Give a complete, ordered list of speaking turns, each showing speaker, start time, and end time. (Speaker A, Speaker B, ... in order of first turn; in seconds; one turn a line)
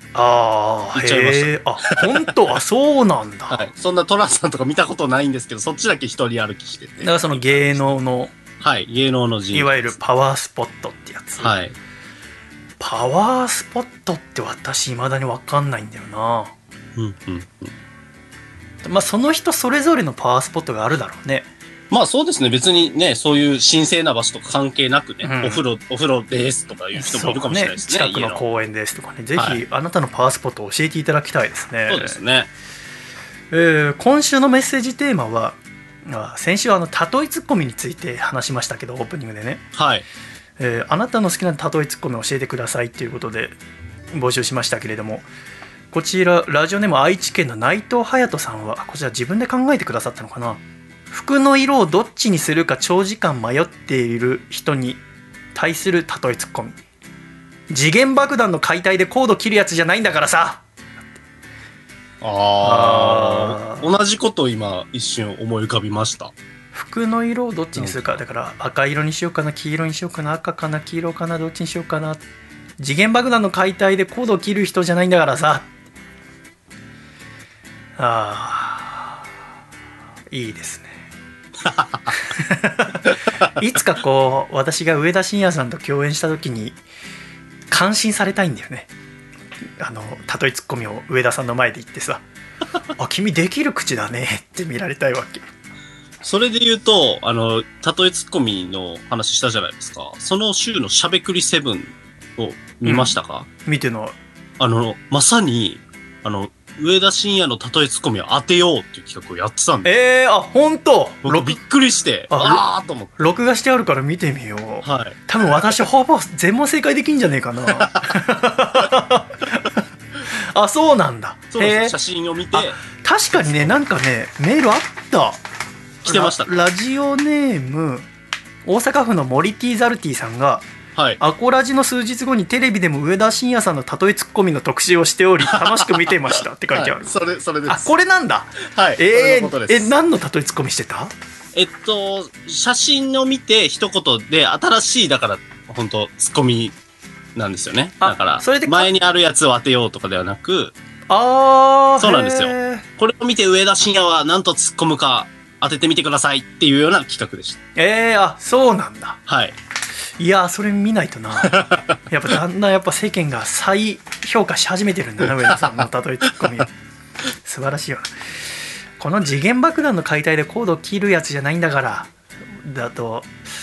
Speaker A: 0.1-3.7
Speaker B: 0.9-2.2
Speaker B: 3.5-7.8
Speaker A: 7.0-8.3
Speaker B: 8.6-9.9
Speaker A: 9.5-11.5
Speaker B: 11.4-11.7
Speaker A: 12.8-16.5
Speaker B: 16.9-17.7
Speaker A: 18.8-21.5
Speaker B: 21.9-28.4
Speaker A: 25.2-25.6
Speaker A: 26.9-32.2
Speaker B: 29.4-29.6
Speaker B: 31.9-32.5
Speaker A: 33.5-39.6
Speaker B: 39.7-40.0
Speaker A: 40.6-43.6
Speaker A: 44.1-45.3
Speaker A: 45.9-55.0
Speaker A: 55.5-56.8
Speaker A: 57.7-60.6
Speaker B: 62.2-66.3
Speaker A: 62.6-63.9
Speaker A: 66.7-72.2
Speaker B: 67.8-68.2
Speaker A: 72.8-75.7
Speaker A: 78.0-79.2
Speaker A: 80.3-81.0
Speaker B: 81.7-82.1
Speaker A: 82.1-86.8
Speaker A: 87.7-88.9
Speaker A: 89.8-92.2
Speaker A: 93.0-95.4
Speaker B: 96.2-103.5
Speaker A: 102.8-104.2
Speaker B: 104.6-109.9
Speaker A: 109.8-111.6
Speaker B: 111.2-113.2
Speaker A: 112.3-112.7
Speaker A: 113.2-121.9
Speaker B: 114.8-115.7
Speaker B: 117.7-118.1
Speaker B: 121.5-122.8
Speaker A: 122.5-125.4
Speaker B: 123.4-123.7
Speaker A: 126.0-128.1
Speaker B: 126.0-126.5
Speaker A: 128.7-130.7
Speaker B: 130.9-131.2
Speaker A: 131.2-137.1
Speaker B: 135.5-137.9
Speaker A: 137.7-141.1
Speaker B: 138.7-139.9
Speaker B: 141.6-146.7
Speaker B: 147.3-150.7
Speaker A: 148.0-148.9
Speaker A: 151.1-152.8
Speaker B: 152.0-157.6
Speaker A: 157.8-159.2
Speaker B: 159.3-159.6
Speaker A: 160.2-166.7
Speaker B: 161.4-161.9
Speaker A: 167.4-168.1
Speaker A: 169.0-173.3